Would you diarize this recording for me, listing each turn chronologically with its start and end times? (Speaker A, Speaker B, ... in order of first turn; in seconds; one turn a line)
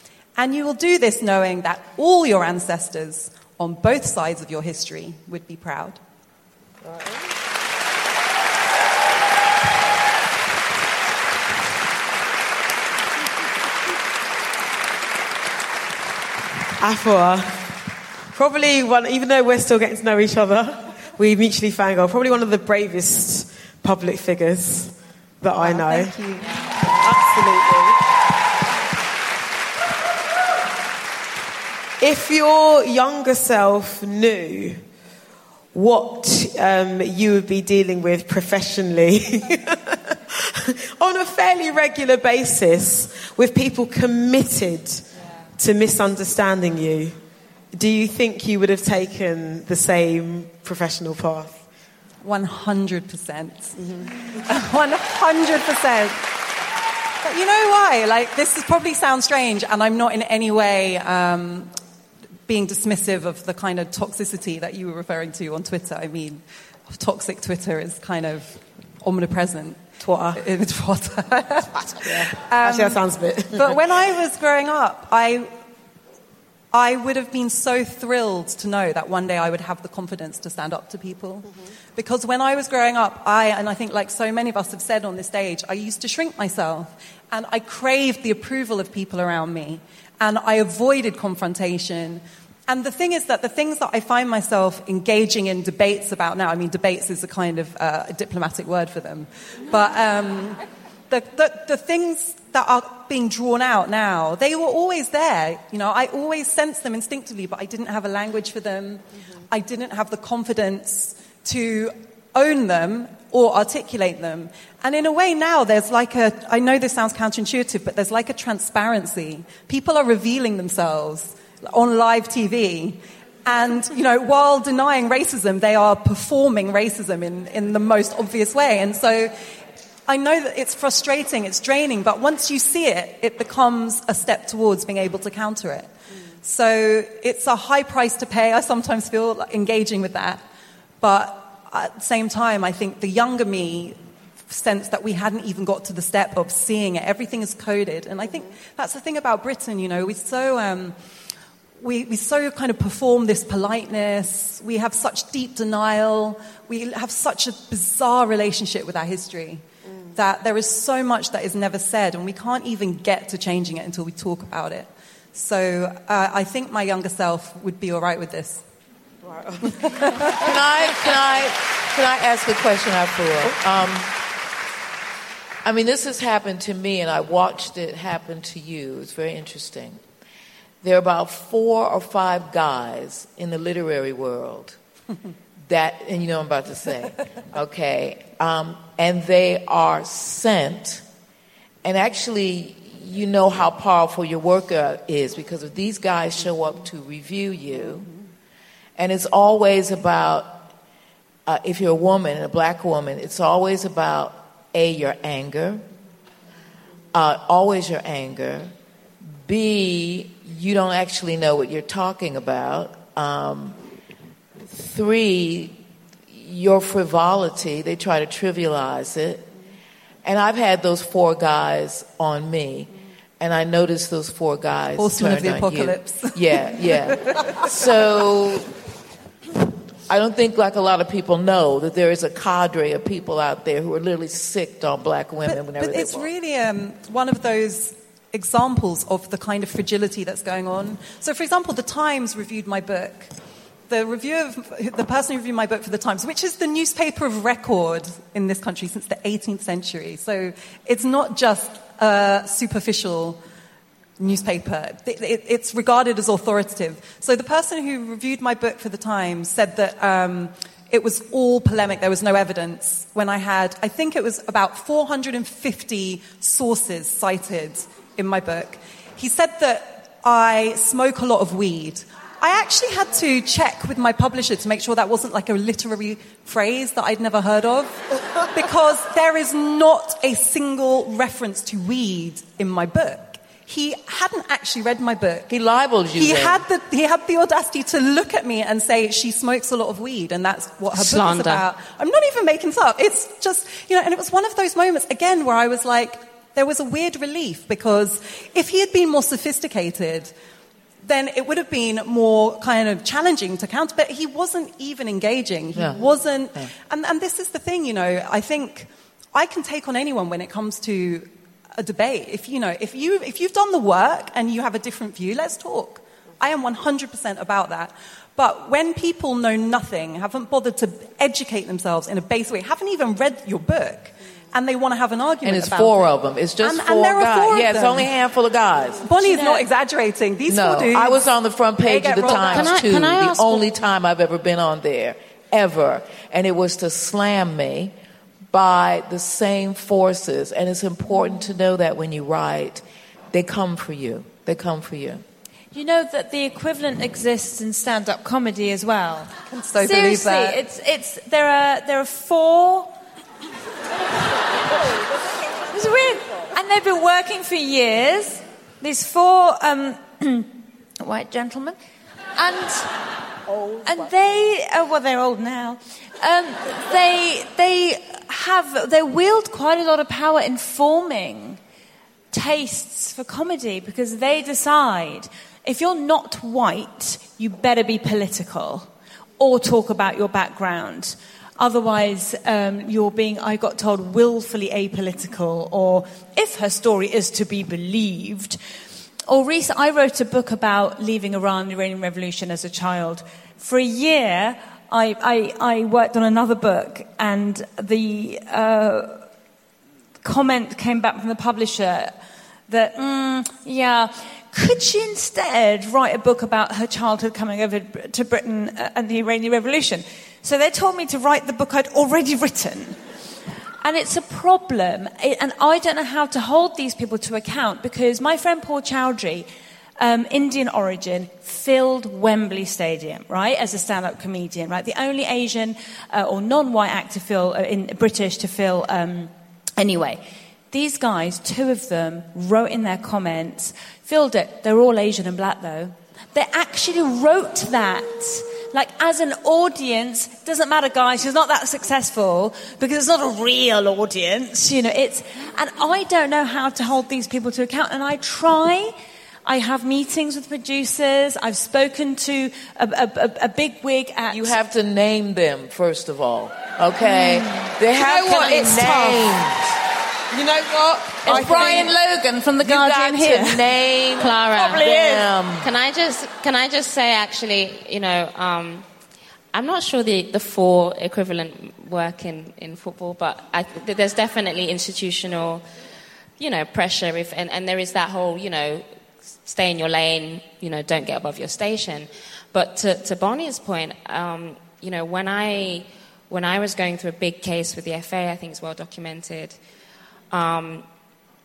Speaker A: 0.4-6.0
Speaker B: 16.8-17.7
Speaker B: 18.3-26.1
Speaker A: 25.6-26.8
Speaker B: 26.9-28.0
Speaker B: 32.0-34.8
Speaker B: 35.7-45.0
Speaker B: 45.6-47.2
Speaker B: 47.7-51.6
Speaker A: 52.2-53.8
Speaker A: 54.5-56.4
Speaker A: 57.2-61.7
Speaker A: 62.5-75.5
Speaker B: 70.0-70.4
Speaker B: 72.0-74.0
Speaker A: 76.7-129.3
Speaker A: 130.1-135.9
Speaker A: 136.4-140.4
Speaker A: 141.0-144.0
Speaker A: 144.5-151.0
Speaker A: 151.8-168.6
Speaker B: 169.3-169.8
Speaker C: 170.3-174.1
Speaker C: 175.6-180.0
Speaker C: 180.8-184.8
Speaker C: 185.7-191.0
Speaker C: 191.8-198.1
Speaker C: 199.0-200.7
Speaker C: 201.5-205.8
Speaker C: 207.1-208.7
Speaker C: 209.5-213.8
Speaker C: 214.7-215.8
Speaker C: 216.3-219.4
Speaker C: 220.2-228.7
Speaker A: 225.0-227.4
Speaker C: 230.1-236.3
Speaker A: 235.5-243.3
Speaker A: 243.9-253.4
Speaker A: 254.2-278.0
Speaker A: 278.5-285.5
Speaker C: 285.5-286.6
Speaker A: 286.1-300.3
Speaker D: 290.9-291.6
Speaker A: 301.0-328.1
Speaker C: 305.8-306.0
Speaker C: 325.4-329.1
Speaker A: 329.0-331.3
Speaker C: 330.5-337.9
Speaker A: 331.8-332.8
Speaker D: 332.3-333.7
Speaker C: 338.5-345.2
Speaker E: 345.7-352.9
Speaker A: 349.5-350.6
Speaker E: 355.6-361.8
Speaker E: 362.4-362.9
Speaker E: 363.8-371.6
Speaker E: 372.3-378.9
Speaker E: 379.4-388.6
Speaker E: 389.3-399.2
Speaker E: 400.2-402.1
Speaker E: 402.7-413.0
Speaker E: 413.8-419.5
Speaker E: 420.0-454.5
Speaker C: 454.3-459.6
Speaker E: 457.1-457.6
Speaker B: 458.0-459.4
Speaker B: 460.3-461.9
Speaker E: 461.3-463.7
Speaker C: 461.3-461.9
Speaker C: 462.6-465.7
Speaker D: 464.2-468.9
Speaker E: 464.6-465.2
Speaker D: 469.5-475.6
Speaker D: 476.4-478.9
Speaker D: 479.4-489.6
Speaker D: 490.3-490.9